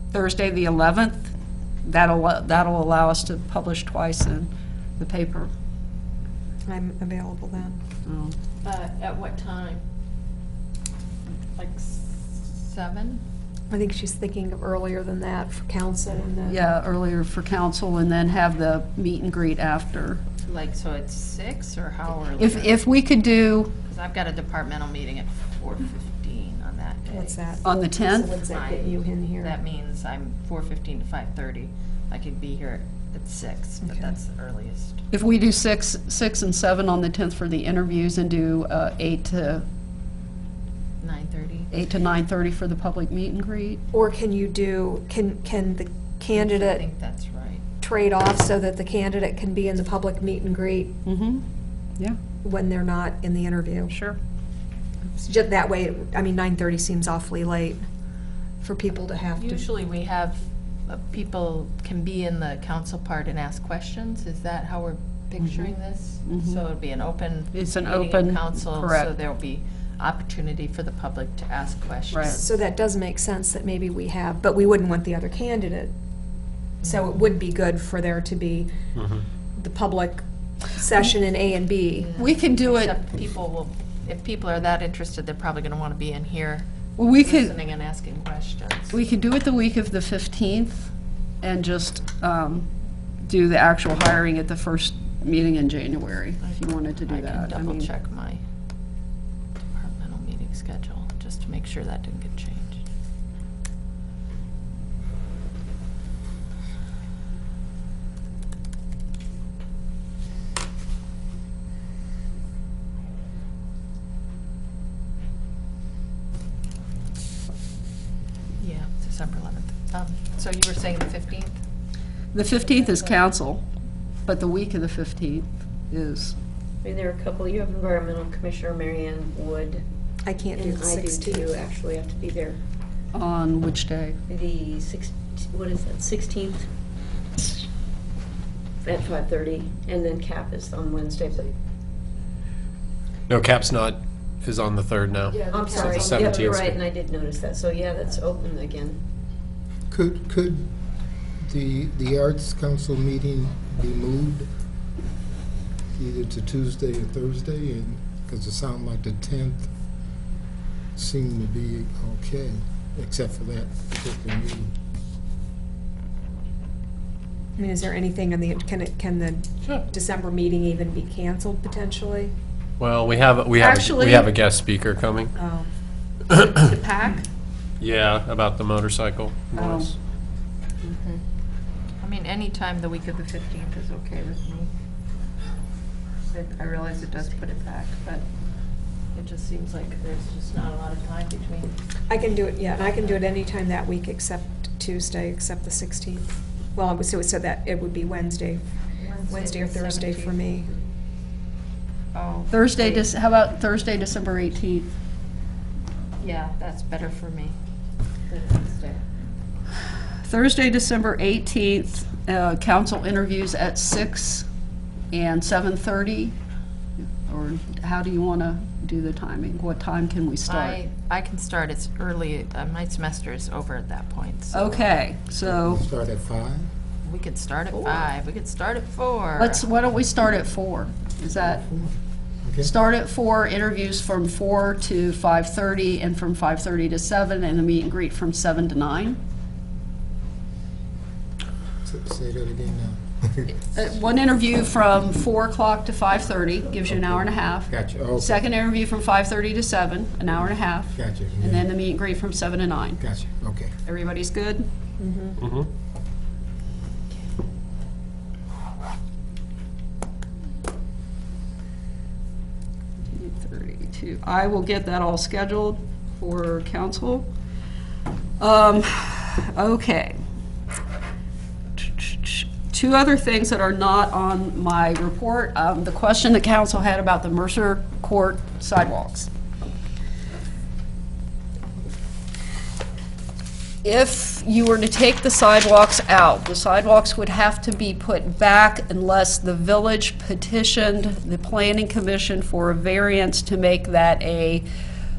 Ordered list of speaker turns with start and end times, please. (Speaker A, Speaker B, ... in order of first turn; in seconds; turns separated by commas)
Speaker A: 0.1-1.3, Speaker A: 1.8-5.5, Speaker B: 6.7-7.8, Speaker A: 8.1-8.3, Speaker C: 8.6-9.8, Speaker C: 11.5-13.2, Speaker B: 13.7-16.6, Speaker A: 16.4-20.2, Speaker C: 20.4-22.9, Speaker A: 22.4-23.7, Speaker C: 23.8-27.6, Speaker B: 27.1-29.6, Speaker A: 27.6-28.4, Speaker C: 28.5-35.0, Speaker B: 33.8-34.2, Speaker A: 35.1-39.6, Speaker C: 41.0-41.7, Speaker A: 41.7-43.8, Speaker B: 43.9-46.8, Speaker C: 46.3-47.6, Speaker B: 47.8-51.0, Speaker A: 51.0-51.4, Speaker B: 52.4-53.9, Speaker A: 53.9-54.2, Speaker B: 55.1-57.8, Speaker B: 58.6-59.6, Speaker C: 59.4-72.5, Speaker A: 65.4-66.6, Speaker A: 67.5-69.1, Speaker A: 72.1-72.4, Speaker B: 72.3-75.9, Speaker B: 76.8-78.7, Speaker C: 76.8-77.2, Speaker D: 78.9-79.2, Speaker B: 79.5-82.1, Speaker C: 82.0-89.0, Speaker A: 82.2-83.0, Speaker A: 87.0-87.5, Speaker A: 88.9-92.7, Speaker A: 93.2-97.9, Speaker C: 96.4-98.4, Speaker C: 99.7-102.8, Speaker C: 118.6-121.6, Speaker A: 122.3-123.6, Speaker C: 122.6-123.2, Speaker A: 124.2-126.3, Speaker E: 126.8-129.8, Speaker B: 130.2-131.6, Speaker E: 130.5-132.6, Speaker A: 133.1-134.2, Speaker E: 134.3-136.7, Speaker E: 138.8-141.5, Speaker D: 143.3-146.8, Speaker A: 145.4-146.4, Speaker E: 145.5-149.0, Speaker F: 149.9-150.7, Speaker F: 151.4-154.5, Speaker F: 155.9-159.7, Speaker F: 160.9-164.7, Speaker B: 167.6-172.3, Speaker D: 172.8-175.3, Speaker A: 173.6-174.3, Speaker B: 175.3-175.7, Speaker D: 176.3-176.7, Speaker A: 176.4-177.2, Speaker D: 177.8-179.9, Speaker A: 179.5-179.9, Speaker C: 182.0-184.7, Speaker C: 186.3-188.2, Speaker C: 189.1-191.8, Speaker B: 192.1-198.6, Speaker C: 192.8-193.2, Speaker C: 199.0-200.6, Speaker B: 199.2-200.8, Speaker C: 202.1-203.1, Speaker A: 202.5-204.9, Speaker C: 206.2-207.6, Speaker C: 208.3-209.0, Speaker A: 210.2-214.5, Speaker A: 215.1-216.3, Speaker A: 217.0-220.8, Speaker C: 220.4-224.9, Speaker A: 224.5-225.8, Speaker F: 225.4-226.7, Speaker C: 227.0-229.7, Speaker A: 229.4-231.6, Speaker F: 231.4-232.7, Speaker A: 232.6-239.2, Speaker F: 241.8-243.6, Speaker A: 243.6-253.0, Speaker F: 246.9-248.4, Speaker F: 250.3-251.7, Speaker F: 253.0-253.7, Speaker A: 253.8-254.7, Speaker B: 255.0-255.3, Speaker D: 255.4-255.7, Speaker A: 263.1-267.3, Speaker A: 268.4-270.1, Speaker A: 271.8-279.3, Speaker A: 283.8-294.6